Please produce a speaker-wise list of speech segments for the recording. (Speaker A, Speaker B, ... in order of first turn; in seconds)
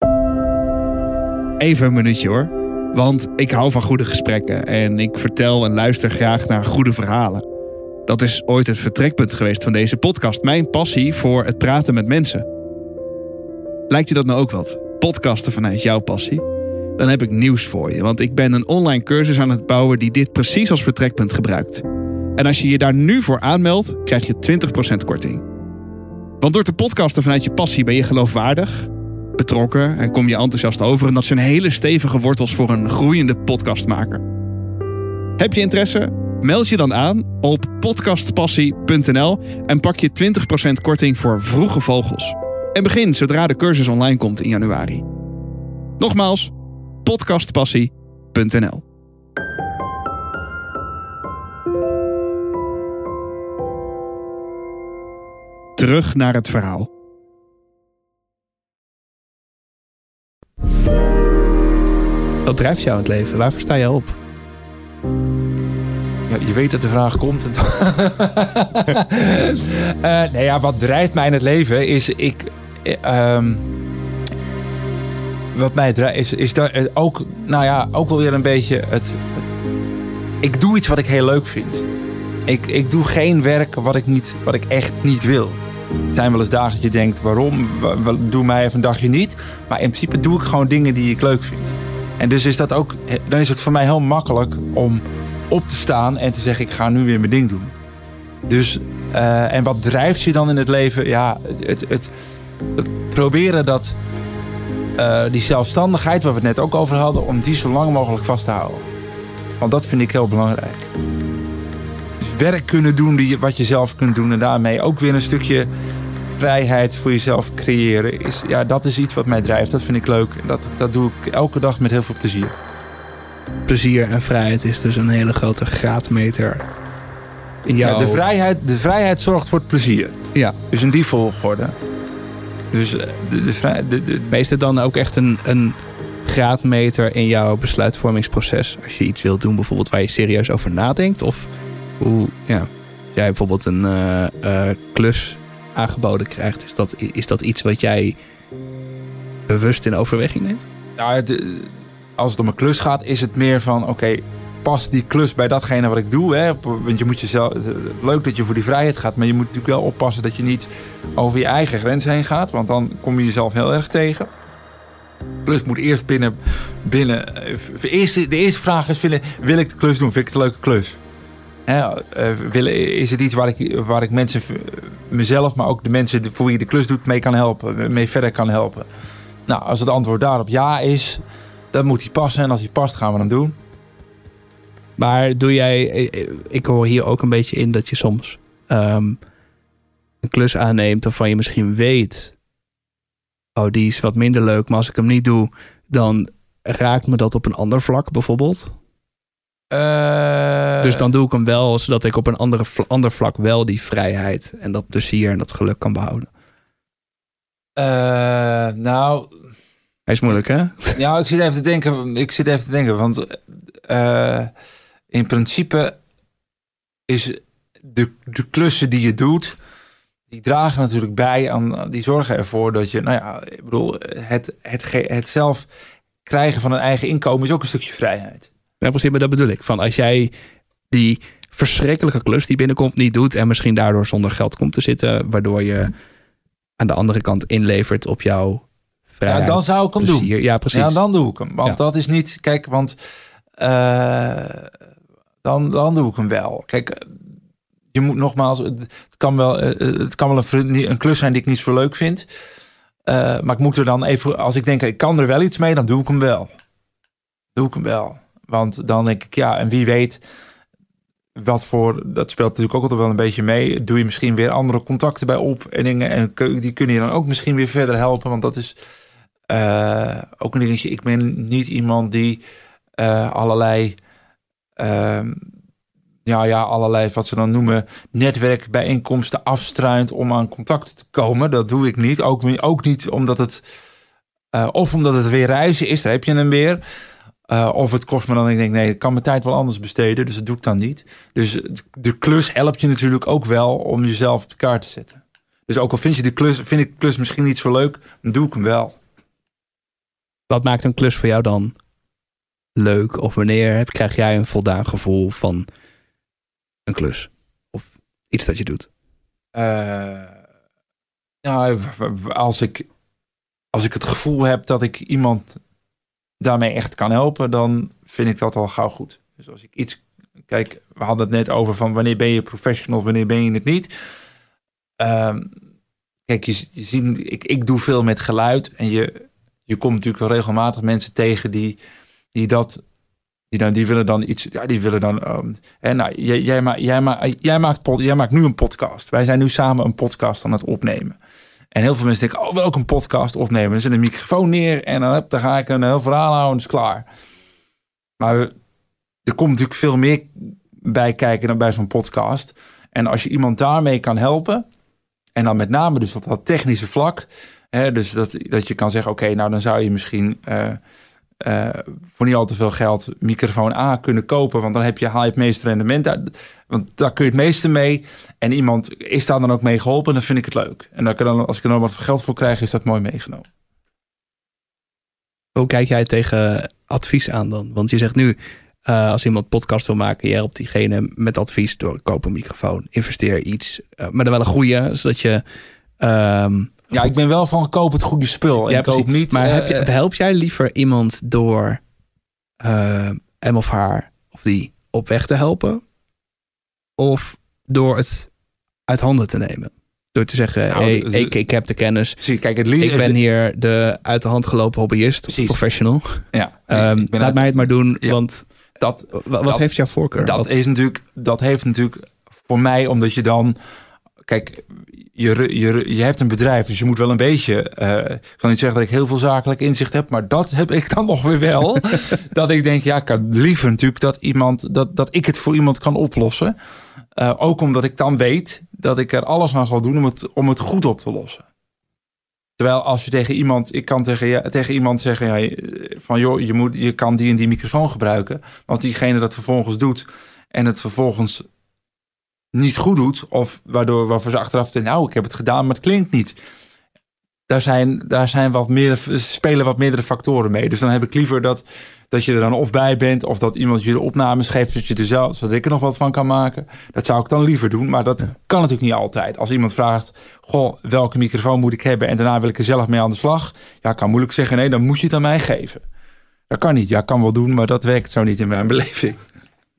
Speaker A: 1.6-7.4, 8.1-12.4, 13.9-16.4, 17.0-21.8, 22.4-25.4, 26.4-34.2, 35.4-45.0, 46.0-46.5, 47.0-48.8, 55.8-56.9
Speaker B: 62.5-64.2, 123.7-126.6, 127.7-128.2, 134.3-141.5, 142.0-148.2, 149.5-150.6, 185.0-189.2, 190.2-192.3, 193.6-198.7, 200.8-206.3, 210.1-211.0, 228.8-230.3, 230.9-235.9, 236.8-238.6, 239.2-241.0, 300.5-301.7, 302.8-305.7, 306.9-308.9, 375.6-385.4, 386.0-387.0, 388.7-391.8, 392.6-395.8, 397.0-398.3, 398.9-402.2, 402.8-408.4, 409.1-410.5
Speaker C: 66.3-73.7, 75.5-79.5, 80.4-81.9, 82.5-97.7, 98.5-102.1, 102.7-104.0, 105.0-108.8, 109.6-110.9, 112.2-115.7, 116.4-122.5, 127.8-130.2, 130.7-131.7, 132.7-134.4, 151.0-164.3, 165.4-171.0, 171.7-178.9, 179.5-183.5, 199.7-201.0, 207.8-209.3, 210.9-214.5, 215.1-216.0, 217.1-219.6, 220.3-225.7, 226.2-228.5, 239.3-243.0, 243.6-244.7, 245.4-247.2, 247.9-252.3, 253.1-256.5, 257.6-260.2, 261.4-268.7, 269.5-272.4, 273.0-274.0, 274.8-275.4, 276.2-283.6, 284.5-286.8, 287.5-299.0, 309.5-310.3, 311.4-312.9, 313.7-315.6, 316.4-323.9, 325.0-325.5, 326.3-331.8, 332.3-332.8, 333.5-341.1, 341.7-347.1, 348.2-348.5, 349.2-354.6, 355.3-360.8, 361.4-373.5, 386.9-389.9, 400.7-401.4, 402.2-403.2, 405.3-405.6, 406.3-408.1, 408.8-409.6, 410.2-413.5, 414.2-426.5, 427.1-431.4, 432.6-441.5, 442.5-446.3, 447.5-465.8, 466.5-469.2